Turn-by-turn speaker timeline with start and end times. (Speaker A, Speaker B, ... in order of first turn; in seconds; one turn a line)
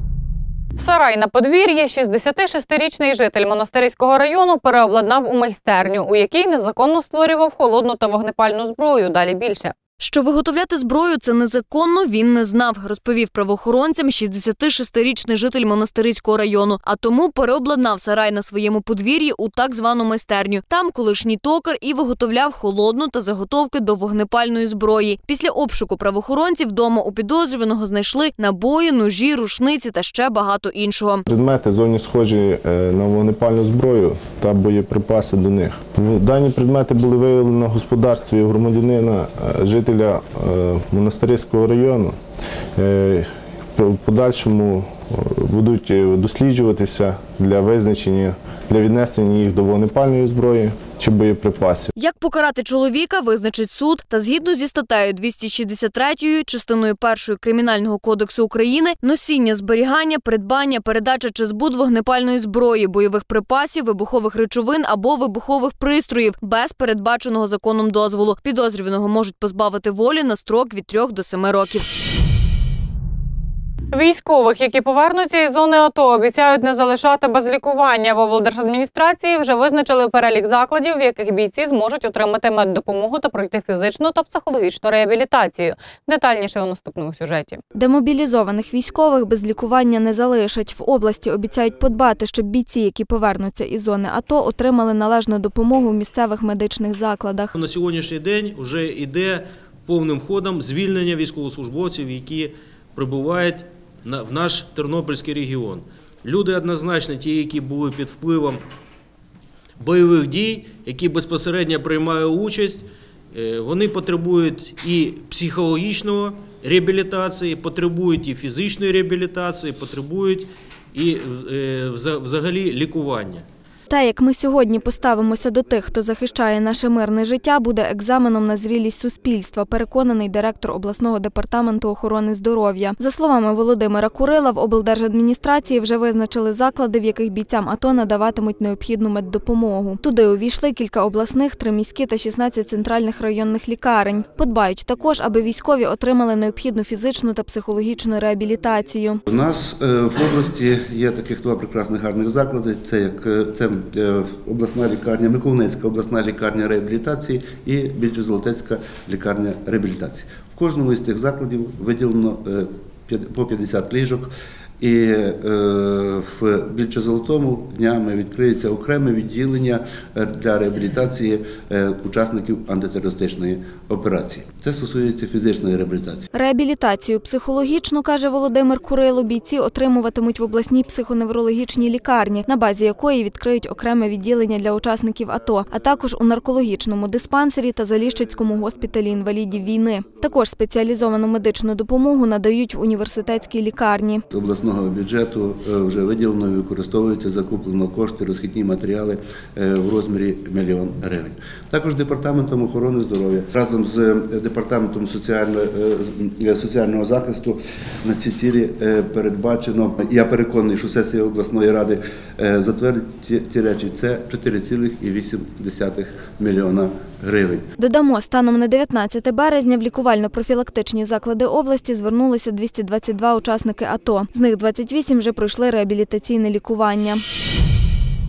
Speaker A: 0.8-9.7
Speaker B: 10.0-31.2
Speaker C: 31.3-42.2
Speaker C: 42.8-51.9
Speaker B: 52.0-71.9
Speaker A: 73.9-87.6
Speaker D: 87.8-97.5
Speaker E: 97.5-108.6
Speaker E: 109.8-123.5
Speaker D: 123.9-149.2
Speaker F: 149.3-164.3
Speaker F: 164.8-176.3
Speaker D: 176.3-194.2
Speaker F: 194.3-217.6
Speaker D: 217.8-227.2